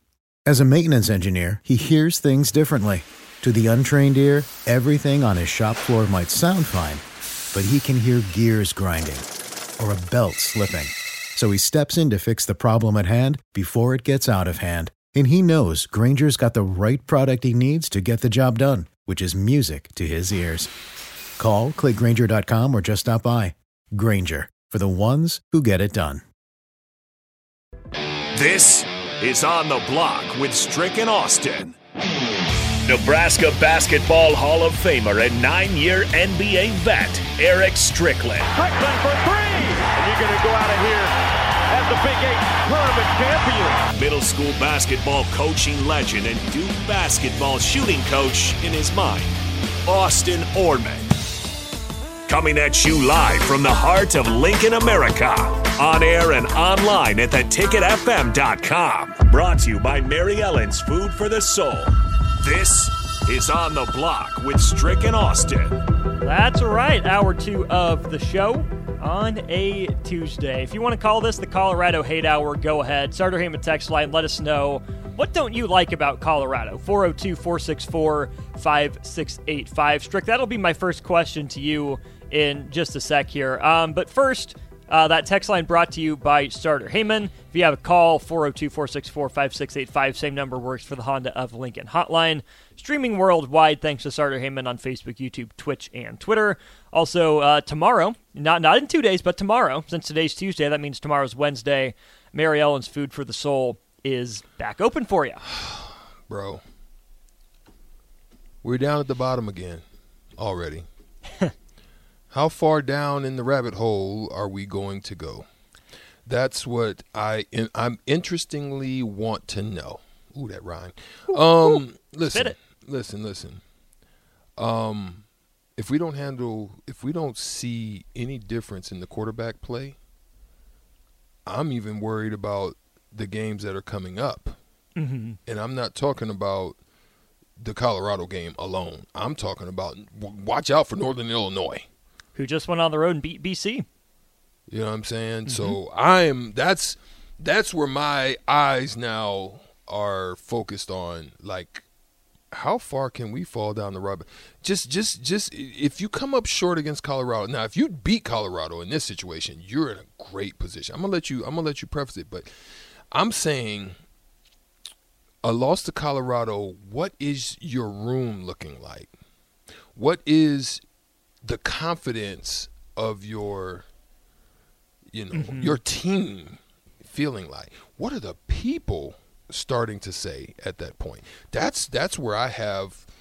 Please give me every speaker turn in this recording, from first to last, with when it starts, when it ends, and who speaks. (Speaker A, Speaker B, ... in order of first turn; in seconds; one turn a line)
Speaker A: 0.5-9.2
Speaker A: 9.8-20.7
Speaker A: 21.4-26.2
Speaker B: 28.3-31.8
Speaker B: 32.8-38.5
Speaker C: 38.5-41.1
Speaker C: 41.7-43.8
Speaker B: 43.9-51.1
Speaker B: 52.3-65.8
Speaker D: 66.2-105.4
Speaker E: 105.5-106.6
Speaker E: 108.6-109.8
Speaker E: 110.4-110.8
Speaker E: 112.3-115.5
Speaker E: 116.2-123.6
Speaker D: 121.3-121.8
Speaker E: 124.6-125.2
Speaker E: 125.8-130.0
Speaker E: 131.4-134.6
Speaker D: 134.9-135.4
Speaker E: 135.4-136.8
Speaker E: 137.6-141.8
Speaker D: 142.3-143.8
Speaker E: 144.7-151.8
Speaker D: 145.5-145.8
Speaker E: 152.5-162.5
Speaker E: 163.1-163.9
Speaker E: 165.4-169.1
Speaker E: 169.9-170.8
Speaker E: 171.4-173.8
Speaker E: 175.1-183.0
Speaker D: 175.3-175.8